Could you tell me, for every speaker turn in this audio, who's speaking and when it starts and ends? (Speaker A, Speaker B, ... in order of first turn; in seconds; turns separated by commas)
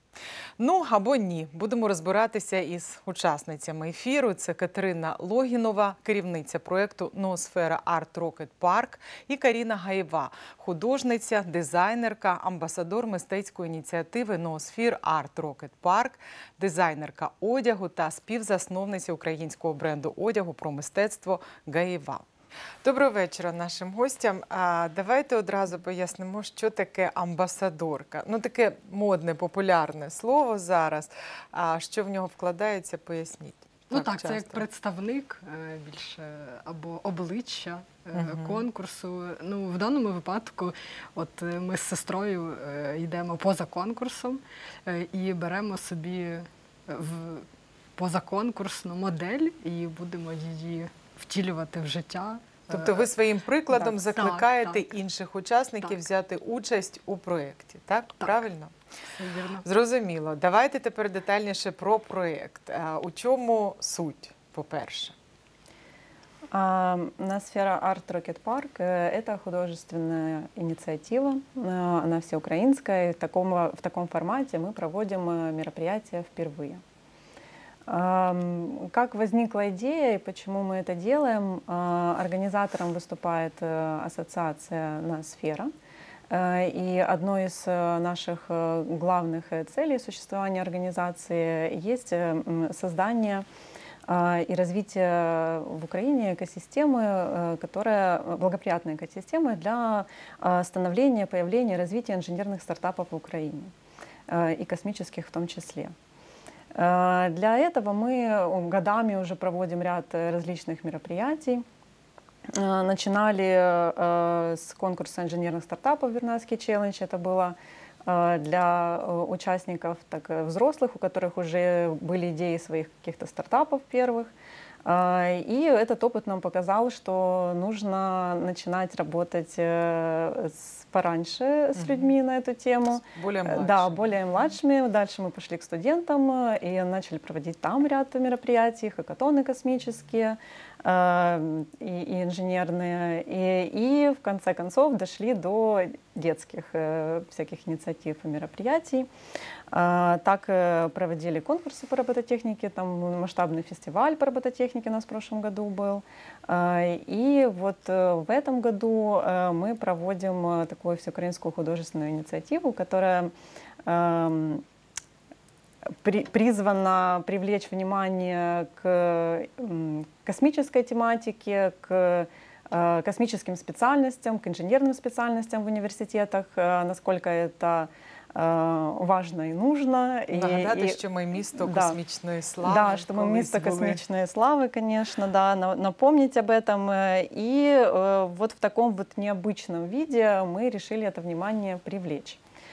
Speaker A: 0.6-22.2, Speaker A: 22.8-34.6, Speaker B: 33.9-47.5, Speaker A: 38.1-38.6, Speaker B: 48.0-53.1, Speaker A: 52.7-58.7, Speaker B: 53.7-55.0, Speaker B: 59.2-59.6, Speaker A: 59.6-65.1, Speaker C: 66.5-76.8, Speaker C: 77.9-85.7, Speaker C: 86.3-93.4, Speaker C: 94.1-103.7, Speaker C: 104.3-105.9, Speaker C: 106.7-111.6, Speaker C: 112.5-124.3, Speaker C: 124.8-149.1, Speaker A: 131.8-132.0, Speaker A: 133.0-134.2, Speaker C: 149.7-163.3, Speaker C: 163.8-164.6, Speaker C: 166.0-181.0, Speaker A: 180.3-184.0, Speaker C: 181.6-182.0, Speaker C: 182.6-192.4